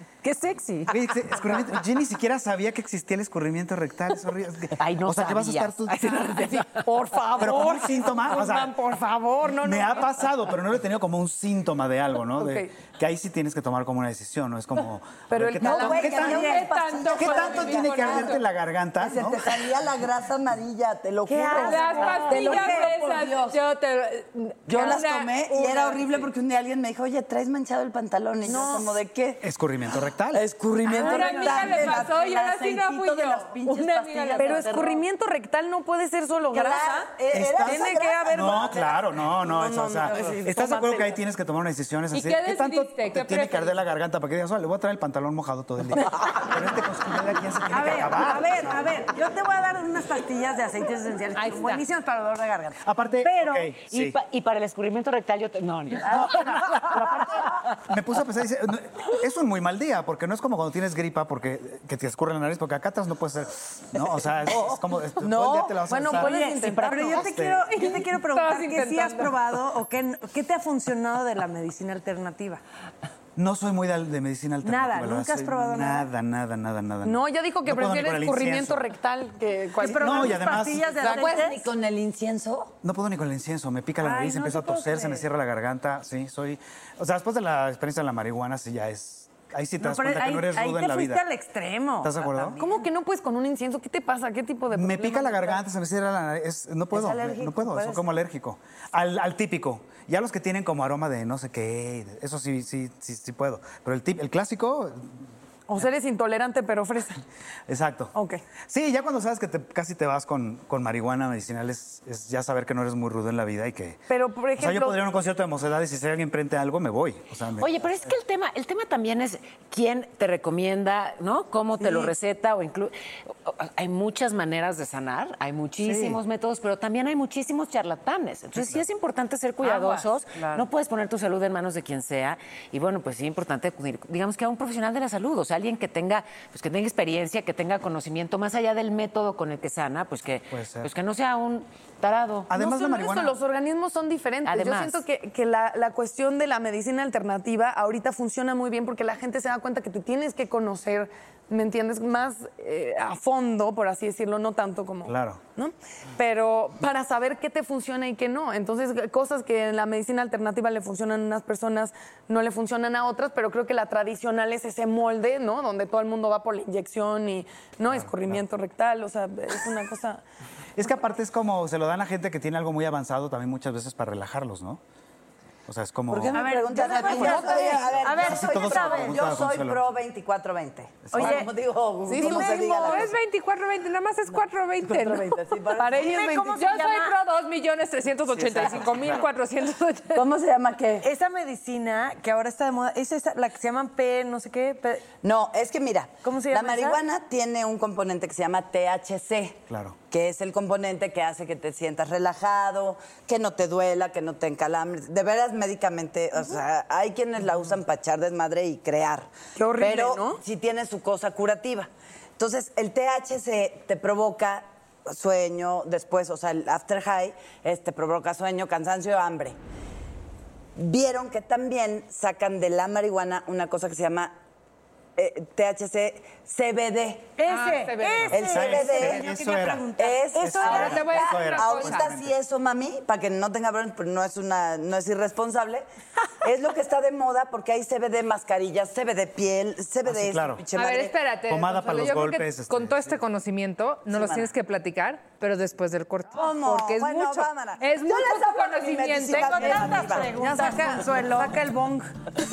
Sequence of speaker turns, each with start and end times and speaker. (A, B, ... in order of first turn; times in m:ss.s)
0:00.2-0:00.9 A
0:00.9-0:06.3 B
0:04.8-0:06.8 A
0:06.9-0:10.0 C
0:07.4-0:08.8 B
0:09.6-0:16.6 B
0:12.4-0:12.7 C
0:15.3-0:16.7 C
0:15.6-0:18.4 D
0:16.3-0:18.4 E
0:17.1-0:19.7 B
0:19.0-0:23.6 D
0:21.3-0:21.7 F
0:21.6-0:22.1 C
0:21.6-0:26.3 E
0:24.7-0:29.4 D
0:28.5-0:28.8 F
0:29.4-0:30.4 B
0:30.3-0:35.0 D
0:30.9-0:34.8 E
0:31.0-0:31.7 F
0:34.4-0:41.1 C
0:36.5-0:38.8 D
0:37.3-0:48.9 B
0:42.1-0:43.8 E
0:47.7-0:53.7 F
0:51.4-0:51.8 E
0:52.8-0:54.2 B
0:53.9-0:56.6 A
0:56.1-1:07.7 B
1:05.2-1:07.3 C
1:06.1-1:12.6 F
1:07.7-1:09.4 E
1:13.4-1:18.8 B
1:14.6-1:16.1 F
1:17.0-1:20.6 C
1:19.8-1:21.7 F
1:19.9-1:20.9 B
1:21.0-1:22.7 D
1:22.8-1:31.3 B
1:24.0-1:25.2 F
1:29.8-1:32.8 F
1:32.0-1:32.6 B
1:32.6-1:35.6 C
1:34.7-1:45.1 B
1:36.9-1:38.0 F
1:45.7-1:47.2 C
1:47.7-1:48.1 B
1:48.1-1:48.4 C
1:48.7-1:54.0 B
1:54.1-1:55.0 C
1:54.6-1:58.1 B
1:57.6-2:22.5 A
2:01.8-2:02.1 C
2:05.8-2:06.2 B
2:08.6-2:08.8 B
2:09.6-2:10.0 E
2:20.5-2:20.9 B
2:22.5-2:23.4 B
2:22.5-2:50.2 C
2:24.4-2:25.0 A
2:35.0-2:35.4 B
2:47.9-2:48.4 B
2:50.8-2:54.8 B
2:55.7-2:56.4 B
2:56.1-3:03.2 D
2:56.3-2:59.2 F
2:56.9-2:57.7 C
2:57.1-2:57.4 E
2:58.1-3:00.0 B
3:01.1-3:01.3 B
3:01.1-3:01.5 F
3:02.1-3:05.4 E
3:02.2-3:03.0 C
3:04.9-3:06.3 D
3:05.8-3:06.7 C
3:05.9-3:07.1 F
3:06.4-3:10.2 E
3:08.5-3:08.8 D
3:08.9-3:09.2 B
3:10.1-3:11.1 D
3:11.0-3:15.1 F
3:15.2-3:39.6 D
3:16.2-3:17.0 F
3:19.7-3:20.0 B
3:29.6-3:30.4 C
3:40.8-3:44.3 D
3:45.2-3:47.4 D
3:47.4-3:51.1 F
3:47.5-3:48.6 E
3:48.2-3:52.4 B
3:48.3-3:49.2 D
3:50.0-3:55.8 D
3:50.6-3:52.1 E
3:56.4-4:01.2 D
4:00.1-4:00.6 B
4:00.7-4:10.0 E
4:01.5-4:03.2 B
4:04.1-4:04.5 D
4:06.3-4:10.3 D
4:09.3-4:11.8 F
4:09.5-4:12.1 C